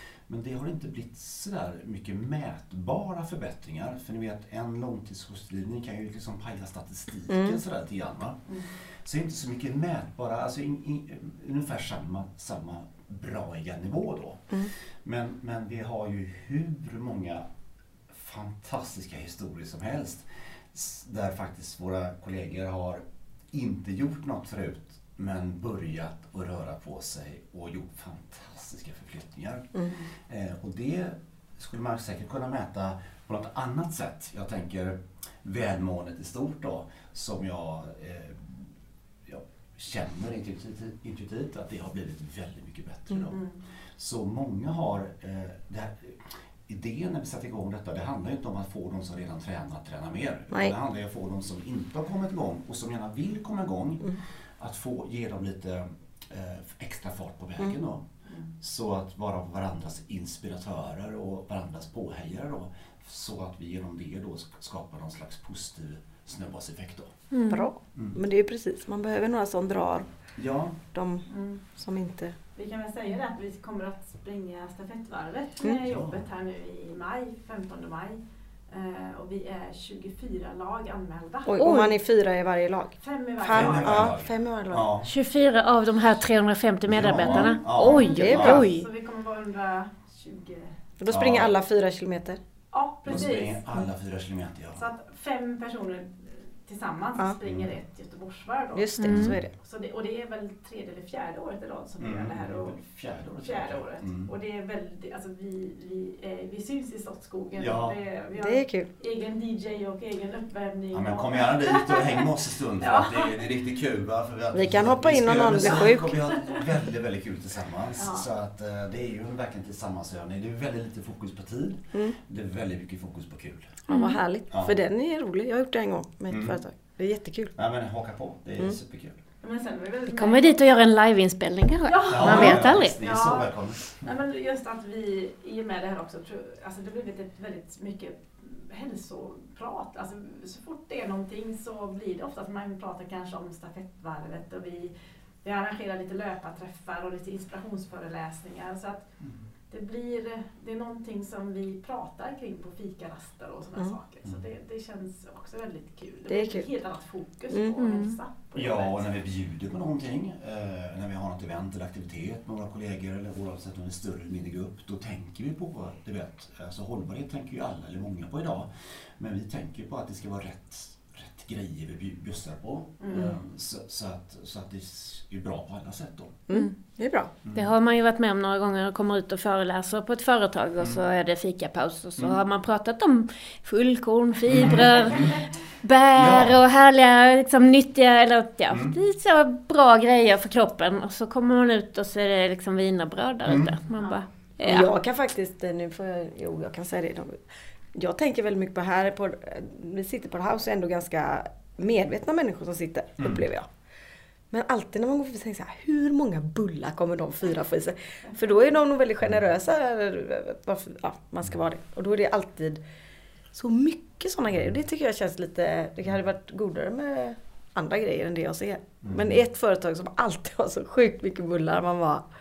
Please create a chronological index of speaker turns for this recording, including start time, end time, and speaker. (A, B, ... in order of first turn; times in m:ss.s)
0:00.3-0:17.4 A
0:07.3-0:07.6 B
0:18.1-0:38.7 A
0:39.3-0:43.4 A
0:43.3-0:43.6 C
0:44.0-0:58.0 A
0:50.5-0:50.8 B
0:58.6-1:07.2 A
1:07.3-1:07.7 D
1:07.5-1:10.1 B
1:10.4-1:10.8 A
1:10.9-1:12.4 B
1:11.3-1:11.6 C
1:12.6-1:21.9 C
1:15.8-1:16.2 A
1:21.5-1:24.9 B
1:23.0-1:24.1 C
1:23.5-1:25.1 A
1:25.0-1:28.9 D
1:26.9-1:28.6 A
1:27.8-1:30.8 C
1:28.1-1:28.7 B
1:31.0-1:32.4 B
1:31.1-1:31.5 A
1:32.7-1:33.7 C
1:33.0-1:34.8 A
1:34.8-1:42.8 C
1:37.4-1:37.7 A
1:38.7-1:39.5 B
1:39.0-1:39.4 D
1:42.0-1:44.3 A
1:43.4-1:52.2 C
1:47.6-1:48.0 A
1:48.4-1:48.9 B
1:50.9-2:03.8 A
1:52.8-1:53.3 C
1:54.5-1:56.2 B
1:58.0-1:58.3 C
2:03.9-2:07.5 B
2:03.9-2:04.2 D
2:06.3-2:06.6 A
2:07.6-2:09.2 A
2:09.4-2:10.6 C
2:10.1-2:13.0 D
2:11.9-2:24.9 C
2:12.1-2:14.1 A
2:25.4-2:29.0 C
2:29.7-2:39.0 C
2:36.3-2:36.7 B
2:37.5-2:37.8 B
2:37.8-2:38.2 D
2:38.5-2:56.4 A
2:53.0-2:53.3 C
2:56.5-2:57.3 B
2:57.4-2:57.7 A
2:57.6-3:14.9 D
3:04.5-3:05.4 A
3:06.2-3:06.6 A
3:08.7-3:09.0 A
3:13.5-3:13.7 A
3:14.0-3:14.2 C
3:14.6-3:17.4 B
3:18.0-3:23.7 B
3:23.2-3:23.4 A
3:24.5-3:32.8 B
3:33.5-3:42.2 B
3:39.0-3:39.4 A